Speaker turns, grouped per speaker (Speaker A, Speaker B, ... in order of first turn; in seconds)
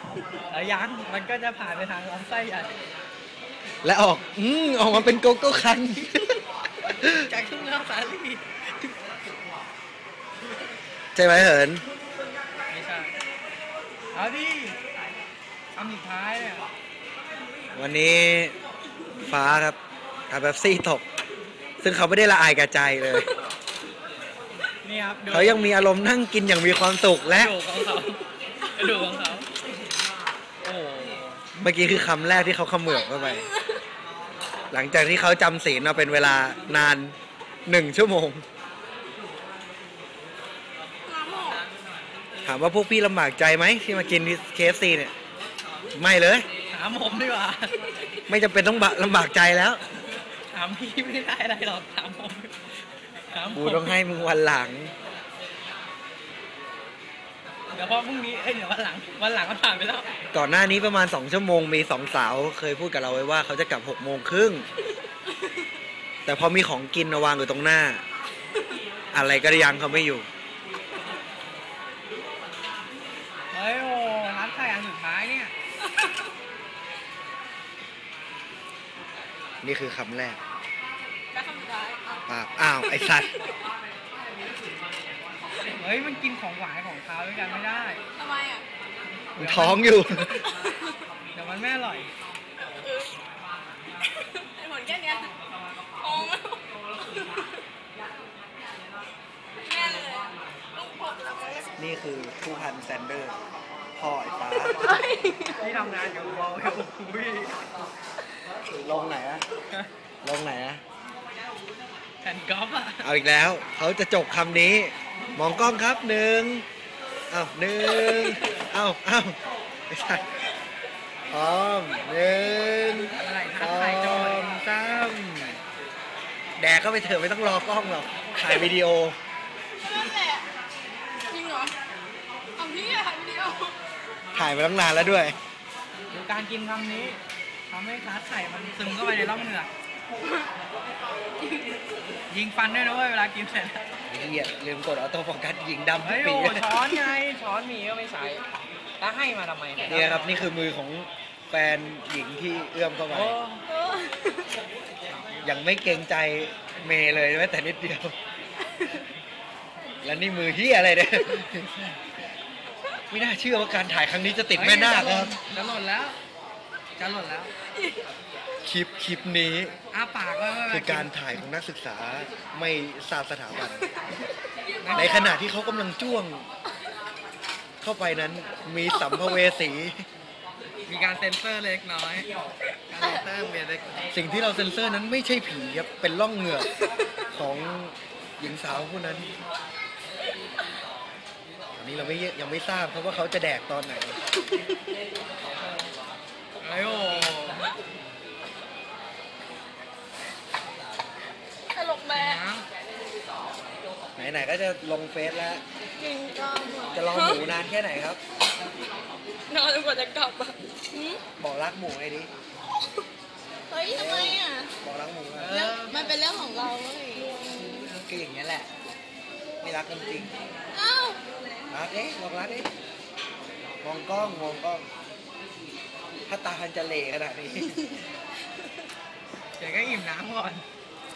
Speaker A: 0.5-2.7, 7.0-8.9, 12.7-13.1, 14.1-14.8, 15.8-16.7, 24.8-25.6, 27.3-29.5, 30.6-31.3, 46.7-47.8, 50.5-52.6, 53.3-54.0, 57.7-60.1, 73.5-75.5, 85.6-88.0, 89.4-90.0, 91.3-92.1, 105.6-107.6, 112.2-113.1, 123.2-124.6, 136.1-139.7, 142.3-143.8, 146.0-148.4, 149.0-150.4, 153.1-153.6, 164.5-166.2, 166.9-167.5, 169.9-171.4, 174.8-175.3, 180.9-182.3, 182.9-184.1, 196.6-197.7, 202.1-202.7, 215.4-216.1, 229.6-230.7
Speaker B: 3.8-6.4, 7.0-7.3, 11.2-11.8, 17.7-18.6, 19.2-19.8, 20.3-21.0, 21.8-23.3, 25.3-27.6, 31.6-33.5, 34.7-38.4, 42.4-45.1, 45.9-46.5, 48.3-49.8, 53.5-54.9, 60.3-64.7, 66.2-68.0, 69.1-70.3, 79.6-80.4, 82.3-83.4, 89.4-90.4, 101.8-103.4, 104.0-104.9, 108.7-109.5, 110.2-110.8, 113.0-116.7, 117.3-119.4, 119.9-120.2, 121.3-125.6, 126.6-129.2, 134.3-135.4, 144.1-147.1, 149.9-153.4, 155.4-158.1, 160.0-162.0, 163.1-165.4, 168.6-169.7, 170.7-173.9, 174.9-176.4, 177.8-180.1, 182.9-183.3, 184.1-186.7, 187.3-189.3, 191.8-194.2, 204.2-205.6, 206.9-208.2, 211.4-212.3, 213.9-215.6, 218.0-218.7, 219.6-220.3, 221.7-222.7, 223.8-224.9, 226.3-228.0
Speaker C: 33.0-33.8, 41.0-41.6, 81.3-82.2, 82.9-83.4, 88.2-88.7, 90.4-91.0, 92.6-93.2, 94.1-97.5, 99.6-101.7, 104.7-105.6, 129.8-130.5, 131.3-131.8, 132.6-133.8, 153.7-154.5, 174.6-175.4, 201.7-202.4, 206.0-207.5, 209.5-211.2, 213.7-214.7, 215.5-217.9, 220.7-221.7